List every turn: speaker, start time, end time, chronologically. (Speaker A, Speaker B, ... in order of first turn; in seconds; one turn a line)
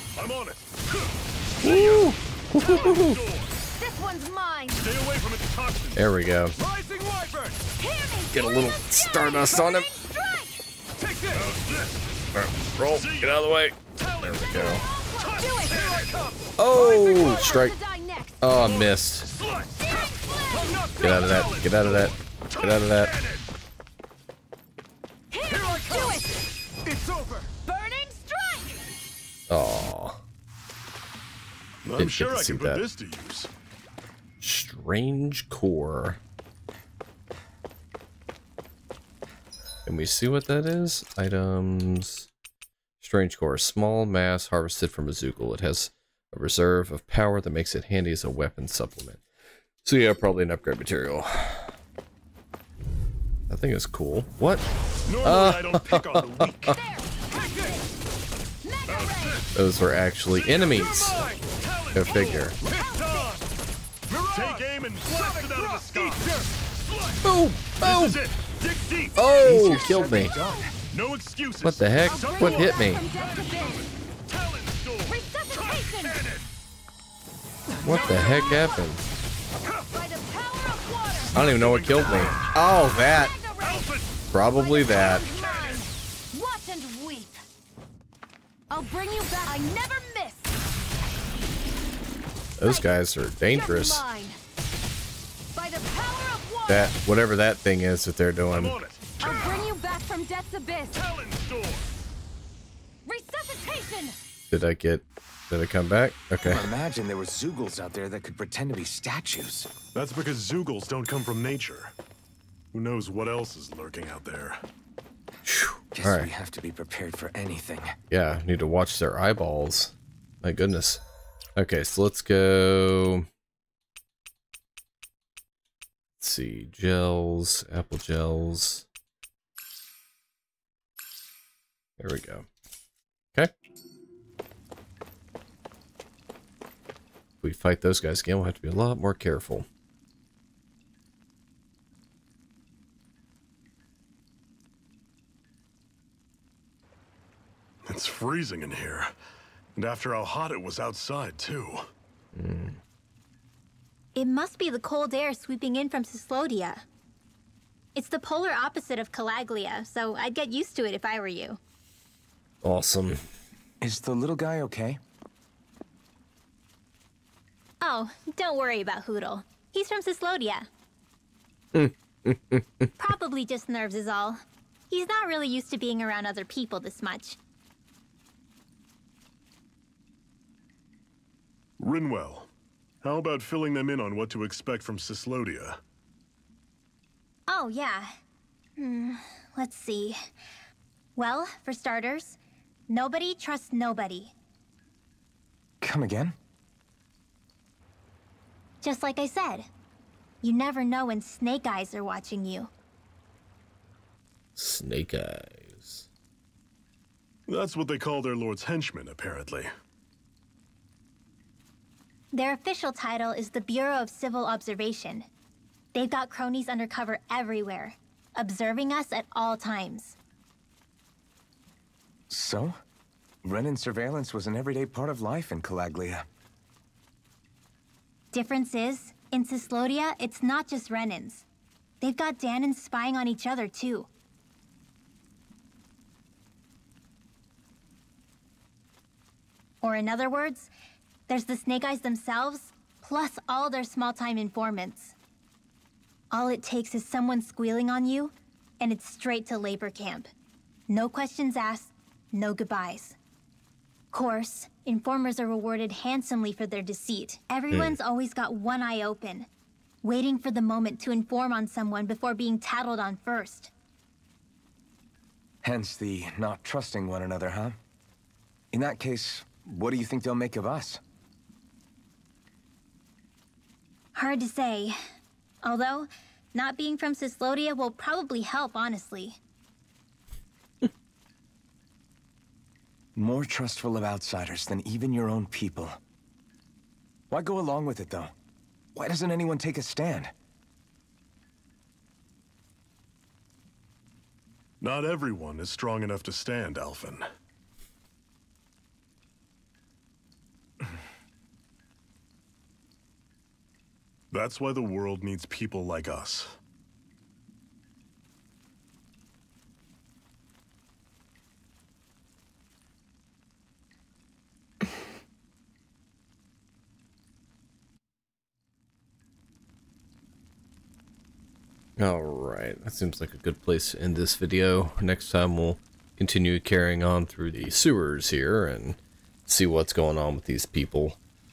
Speaker A: 0.2-3.6
Speaker B: 1.6-3.2
Speaker C: 3.7-4.9
Speaker A: 4.8-6.0
Speaker B: 6.0-6.6
Speaker D: 6.6-7.6
Speaker C: 7.8-11.2
Speaker B: 8.3-9.9
Speaker A: 11.3-16.3
Speaker B: 12.3-14.9
Speaker C: 14.8-16.1
Speaker B: 16.6-17.8
Speaker C: 16.7-18.4
Speaker B: 18.4-19.3
Speaker A: 18.6-23.5
Speaker C: 19.8-20.8
Speaker B: 21.0-23.1
Speaker C: 25.3-26.4
Speaker D: 26.9-27.5
Speaker C: 27.6-28.9
Speaker B: 29.5-30.2
Speaker A: 31.8-33.5
Speaker B: 32.0-32.8
Speaker B: 34.4-36.2
Speaker B: 39.9-42.3
Speaker B: 43.0-49.2
Speaker B: 49.8-51.8
Speaker B: 53.5-54.6
Speaker A: 55.1-56.8
Speaker B: 55.2-56.8
Speaker C: 56.8-57.9
Speaker C: 58.6-59.5
Speaker A: 58.9-59.5
Speaker B: 59.5-61.2
Speaker A: 60.3-63.4
Speaker B: 61.9-62.5
Speaker C: 62.6-63.5
Speaker D: 64.1-64.6
Speaker A: 64.3-67.2
Speaker D: 65.5-66.5
Speaker B: 67.2-68.2
Speaker A: 67.8-69.3
Speaker B: 69.2-70.3
Speaker D: 69.4-70.8
Speaker A: 70.9-76.5
Speaker B: 71.6-73.1
Speaker C: 72.0-73.9
Speaker C: 75.0-76.2
Speaker C: 77.7-78.9
Speaker B: 77.8-79.0
Speaker C: 79.7-81.3
Speaker A: 81.3-82.5
Speaker B: 81.3-83.3
Speaker C: 83.0-83.9
Speaker A: 83.6-84.1
Speaker B: 84.3-85.2
Speaker C: 84.5-87.4
Speaker A: 85.2-85.8
Speaker C: 88.7-90.5
Speaker B: 92.6-94.0
Speaker C: 93.5-94.4
Speaker C: 95.5-96.9
Speaker B: 96.7-98.8
Speaker A: 98.5-99.5
Speaker C: 99.2-101.0
Speaker A: 100.9-101.9
Speaker C: 103.0-104.2
Speaker B: 104.5-106.7
Speaker D: 106.5-109.7
Speaker A: 109.9-111.9
Speaker A: 112.7-114.6
Speaker B: 115.5-116.3
Speaker D: 116.0-117.9
Speaker B: 118.1-121.0
Speaker B: 121.5-123.3
Speaker B: 126.2-128.9
Speaker B: 132.0-132.5
Speaker B: 137.4-139.7
Speaker A: 147.9-149.1
Speaker A: 149.8-151.9
Speaker B: 152.3-152.8
Speaker E: 154.2-156.8
Speaker E: 157.9-161.6
Speaker B: 162.6-163.2
Speaker D: 163.8-165.0
Speaker E: 167.8-170.7
Speaker B: 171.7-172.9
Speaker E: 173.0-177.4
Speaker A: 181.8-182.5
Speaker A: 183.0-185.8
Speaker E: 187.5-188.2
Speaker E: 188.8-190.2
Speaker E: 191.2-194.3
Speaker D: 195.8-196.3
Speaker E: 198.8-199.7
Speaker E: 200.4-202.7
Speaker B: 204.6-206.1
Speaker A: 207.5-209.7
Speaker E: 212.3-215.3
Speaker E: 215.9-220.2
Speaker D: 222.3-222.8
Speaker D: 223.4-226.2
Speaker E: 228.3-231.4
Speaker E: 232.0-234.1
Speaker E: 239.8-240.7
Speaker E: 241.3-245.2
Speaker E: 246.3-250.3
Speaker E: 250.9-253.2
Speaker E: 254.1-259.5
Speaker B: 257.7-258.0
Speaker E: 260.0-263.7
Speaker D: 265.6-267.8
Speaker D: 268.7-271.0
Speaker E: 274.1-275.0
Speaker E: 275.6-279.4
Speaker D: 283.2-286.0
Speaker D: 287.3-288.3
Speaker D: 288.9-290.3
Speaker A: 294.8-297.2
Speaker A: 304.3-306.5
Speaker B: 322.0-331.2